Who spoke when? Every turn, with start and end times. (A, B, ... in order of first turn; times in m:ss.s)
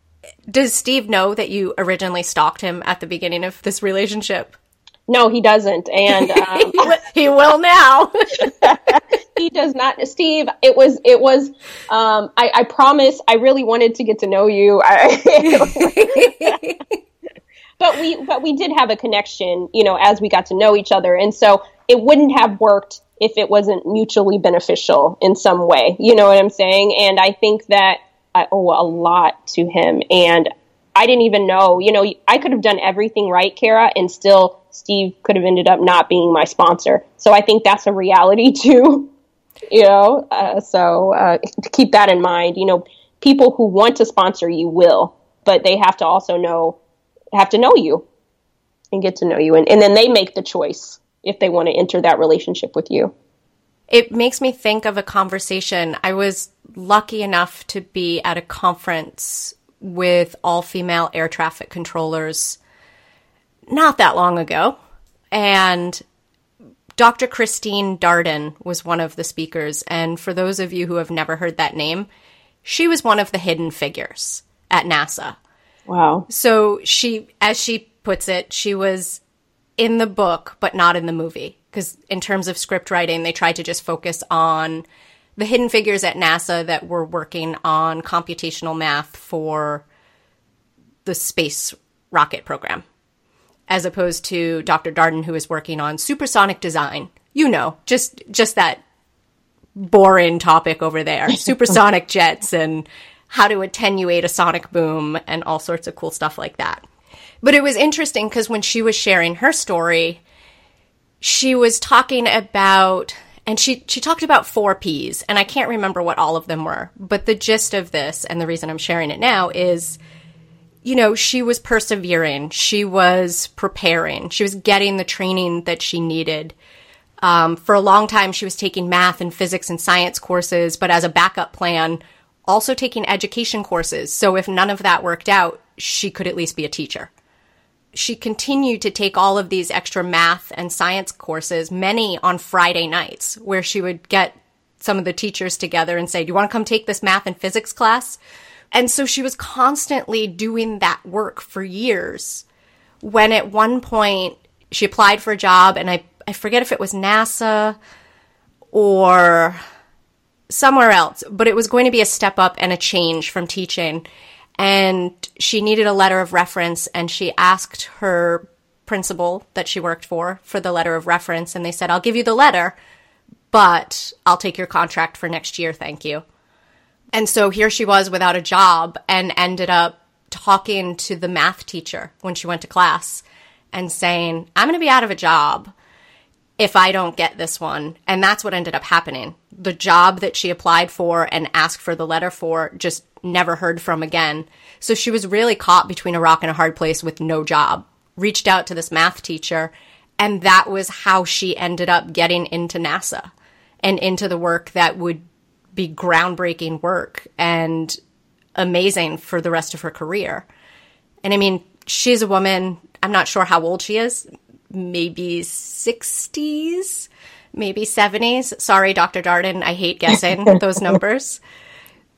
0:00.5-0:04.6 A
0:05.1-0:06.9 B
0:06.5-0:08.5 A
0:09.4-0:16.6 B
0:15.6-0:16.8 A
0:17.8-0:39.1 B
0:39.7-0:46.8 B
0:47.3-0:48.0 B
0:48.9-0:53.1 B
0:53.9-1:02.6 A
1:03.7-1:04.8 A
1:05.3-1:06.0 A
1:07.0-1:12.1 A
1:12.6-1:15.4 A
1:15.9-1:16.3 B
1:16.3-1:19.2 A
1:19.8-1:24.8 A
1:25.4-1:29.8 A
1:31.0-1:32.8 A
1:33.7-1:38.8 A
1:39.8-1:46.8 A
1:47.4-1:50.2 A
1:51.2-2:00.0 A
2:00.8-2:06.6 A
2:07.2-2:17.1 A
2:17.9-2:28.2 A
2:28.7-2:32.4 A
2:33.0-2:37.8 A
2:38.7-2:39.6 A
2:40.5-2:44.1 A
2:44.6-2:52.8 A
2:53.5-2:56.2 A
2:57.1-3:05.7 A
3:06.6-3:23.3 A
3:23.8-3:28.0 A
3:28.6-3:30.5 A
3:31.2-3:41.4 A